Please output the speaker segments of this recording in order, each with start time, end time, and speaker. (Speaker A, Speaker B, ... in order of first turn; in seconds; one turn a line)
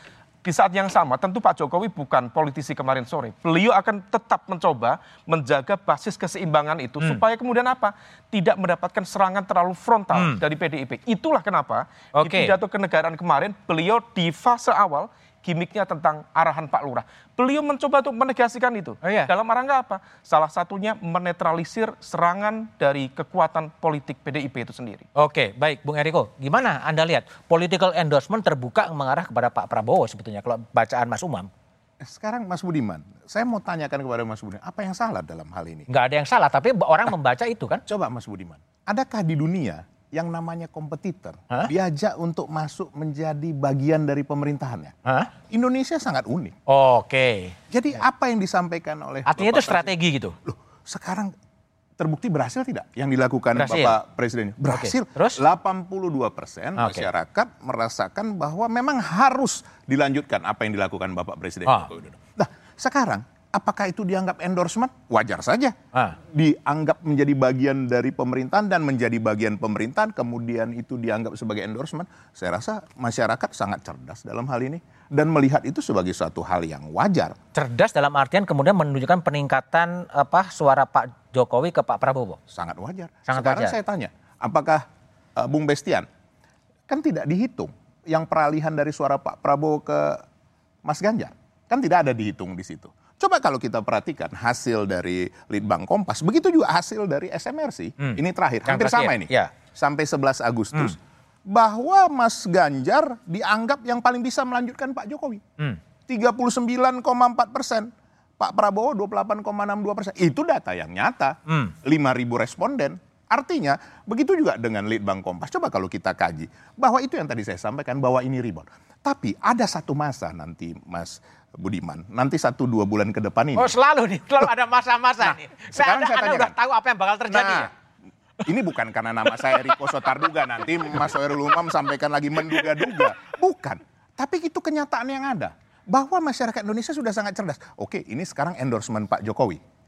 Speaker A: 0.4-25.1
Speaker B: 10.1-10.4
Speaker B: 12.2-12.6
Speaker B: 19.0-19.3
Speaker B: 25.2-31.5
Speaker C: 32.0-35.9
Speaker B: 35.9-37.8
Speaker C: 37.9-46.6
Speaker B: 45.1-45.3
Speaker B: 46.7-47.5
Speaker C: 47.7-51.3
Speaker B: 49.3-50.4
Speaker C: 52.0-65.8
Speaker B: 53.6-54.0
Speaker B: 54.7-55.4
Speaker B: 56.8-57.1
Speaker C: 66.3-77.4
Speaker B: 77.5-82.4
Speaker C: 82.5-84.8
Speaker B: 83.3-83.8
Speaker C: 85.4-86.1
Speaker C: 86.9-90.2
Speaker C: 90.9-105.4
Speaker B: 98.0-99.5
Speaker C: 106.1-123.7
Speaker B: 111.5-111.7
Speaker B: 123.6-127.7
Speaker C: 125.2-126.5
Speaker C: 127.3-127.7
Speaker C: 128.5-139.6
Speaker B: 129.5-129.8